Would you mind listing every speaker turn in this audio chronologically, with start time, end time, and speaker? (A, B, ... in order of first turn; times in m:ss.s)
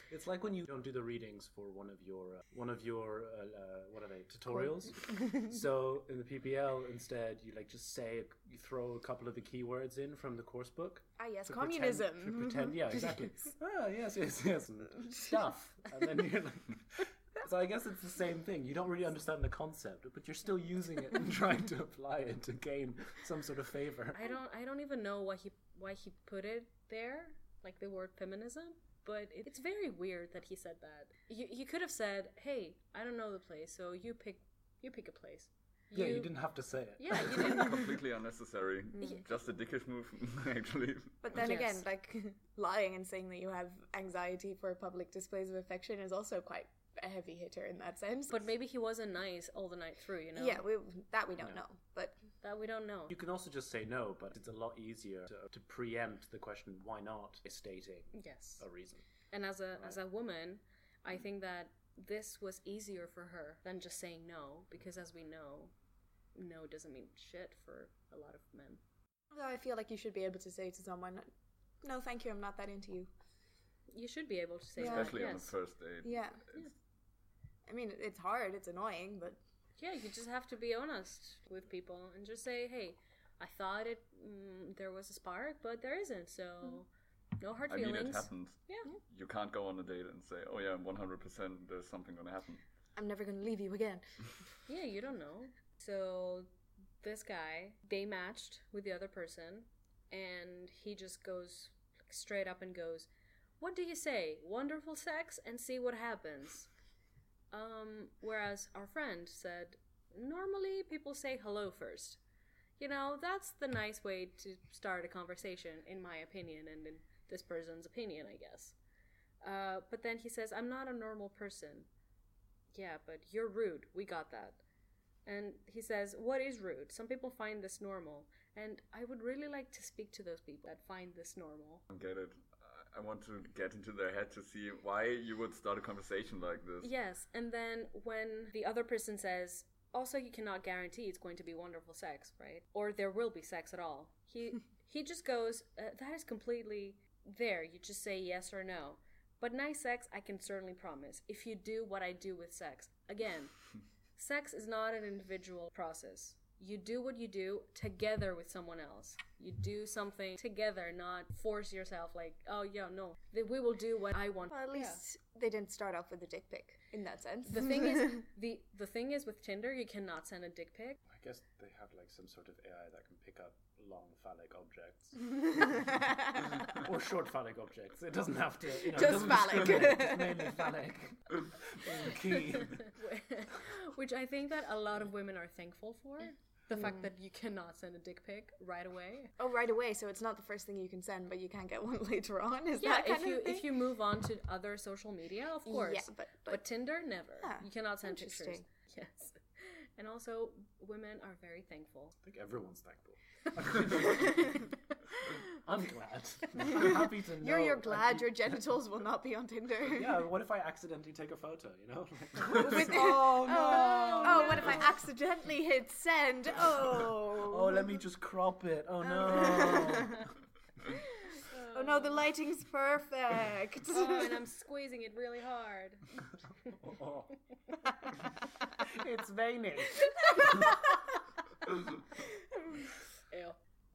0:00.1-0:24.3 A
0:11.2-0:12.8 B
0:24.1-0:36.4 C
0:35.9-0:37.8 A
0:37.0-0:37.9 C
0:37.3-0:41.3 D
0:41.2-0:48.4 B
0:41.4-0:41.8 C
0:48.3-0:50.6 C
0:50.4-0:52.2 B
0:52.4-0:53.2 C
0:53.1-0:59.0 A
0:58.1-0:58.6 C
0:59.3-1:05.7 C
1:06.4-1:08.8 C
1:09.3-1:11.3 B
1:11.8-1:13.1 B
1:13.9-1:15.5 C
1:14.8-1:15.3 B
1:14.8-1:16.6 D
1:16.0-1:16.4 B
1:17.7-1:19.4 B
1:19.8-1:28.9 C
1:27.7-1:32.6 D
1:33.0-1:34.3 B
1:34.7-1:36.5 C
1:37.0-1:43.1 C
1:43.6-1:46.7 C
1:47.5-1:52.2 C
1:52.8-1:58.8 C
1:59.4-2:01.9 C
2:02.7-2:04.6 C
2:05.3-2:11.8 C
2:11.9-2:16.9 D
2:16.8-2:33.6 C
2:34.2-2:45.0 C
2:44.5-2:48.2 B
2:47.4-2:51.0 C
2:51.1-2:56.0 A
2:55.9-2:56.5 B
2:56.6-3:02.9 A
2:58.9-3:00.7 B
3:02.3-3:09.4 C
3:09.4-3:13.7 B
3:12.8-3:22.2 C
3:15.7-3:16.6 B
3:17.4-3:18.6 B
3:22.2-3:24.7 A
3:24.2-3:24.6 C
3:25.3-3:28.6 A
3:26.7-3:30.2 B
3:29.8-3:34.9 A
3:32.5-3:38.0 B
3:33.0-3:34.9 C
3:37.4-3:40.3 A
3:39.1-3:40.2 B
3:41.5-3:42.2 C
3:41.7-3:44.4 B
3:43.9-3:46.7 C
3:46.7-3:47.3 A
3:48.8-3:50.7 A
3:53.3-3:53.6 C